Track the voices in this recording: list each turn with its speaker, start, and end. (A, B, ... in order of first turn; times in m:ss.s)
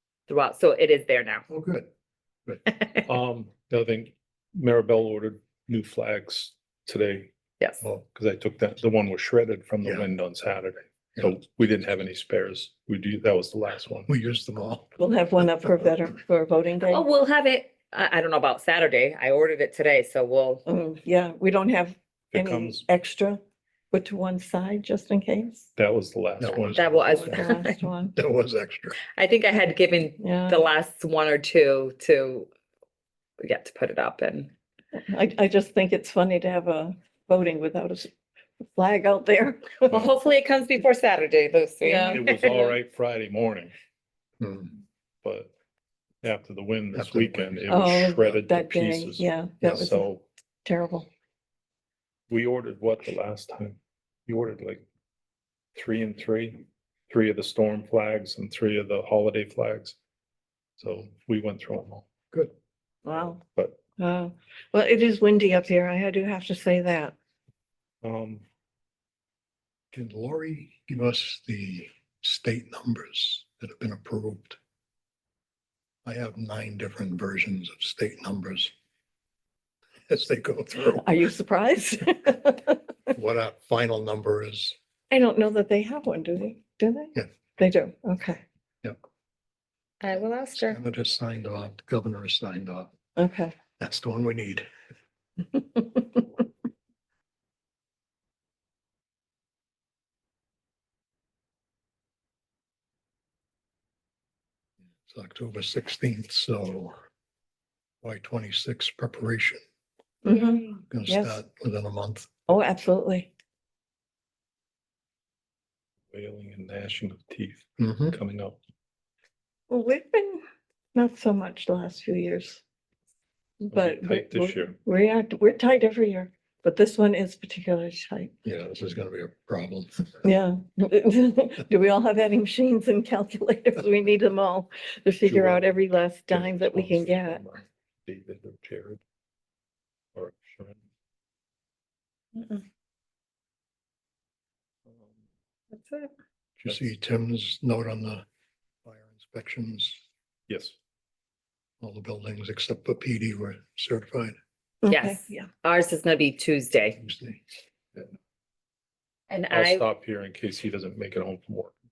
0:00.3-0:01.4 A
0:01.5-0:01.9 B
0:02.7-0:03.0 A
0:03.0-0:07.3 C
0:08.0-0:14.1 C
0:14.1-0:14.9 B
0:15.0-0:17.0 D
0:16.9-0:20.6 A
0:20.6-0:23.4 D
0:22.3-0:22.8 C
0:23.9-0:25.7 D
0:25.8-0:27.2 C
0:26.4-0:27.6 B
0:26.7-0:27.8 A
0:27.2-0:28.1 D
0:28.1-0:29.0 B
0:29.1-0:32.5 A
0:30.2-0:30.6 D
0:33.4-0:34.5 A
0:35.0-0:38.1 D
0:38.7-0:40.1 D
0:39.9-0:42.7 A
0:41.8-0:42.2 D
0:42.1-0:43.7 C
0:44.4-0:44.7 B
0:45.2-0:45.5 C
0:46.2-0:50.2 C
0:46.9-0:47.7 B
0:47.7-0:50.1 D
0:49.6-0:49.8 B
0:50.6-0:51.1 D
0:52.3-0:54.8 C
0:55.7-1:00.0 C
1:00.8-1:02.1 C
1:03.0-1:03.4 D
1:03.1-1:03.8 C
1:04.0-1:07.1 D
1:08.0-1:08.4 C
1:09.9-1:14.6 B
1:16.0-1:18.7 B
1:20.1-1:21.0 B
1:20.9-1:22.8 D
1:23.1-1:24.7 B
1:25.1-1:28.4 D
1:30.0-1:30.8 A
1:30.5-1:32.9 B
1:33.2-1:33.6 D
1:33.8-1:34.7 B
1:35.8-1:36.2 D
1:45.1-1:47.0 B
1:48.0-1:49.6 B
1:50.2-1:51.4 D
1:50.3-1:50.6 A
1:50.9-1:52.5 B
1:52.5-1:53.3 D
1:56.1-1:58.6 C
1:57.8-1:58.2 B
1:59.7-2:00.4 D
2:00.9-2:02.6 D
2:03.6-2:08.3 D
2:03.7-2:04.8 C
2:08.4-2:10.1 B
2:10.2-2:17.4 D
2:15.2-2:15.7 C
2:16.3-2:19.0 C
2:20.1-2:20.8 C
2:22.3-2:22.6 A
2:25.7-2:26.1 A
2:26.6-2:28.2 B
2:28.8-2:30.0 B
2:30.5-2:30.7 C
2:31.8-2:34.4 B
2:34.8-2:35.5 D
2:34.9-2:37.0 A
2:37.0-2:37.4 B
2:39.3-2:39.8 A
2:39.5-2:41.7 C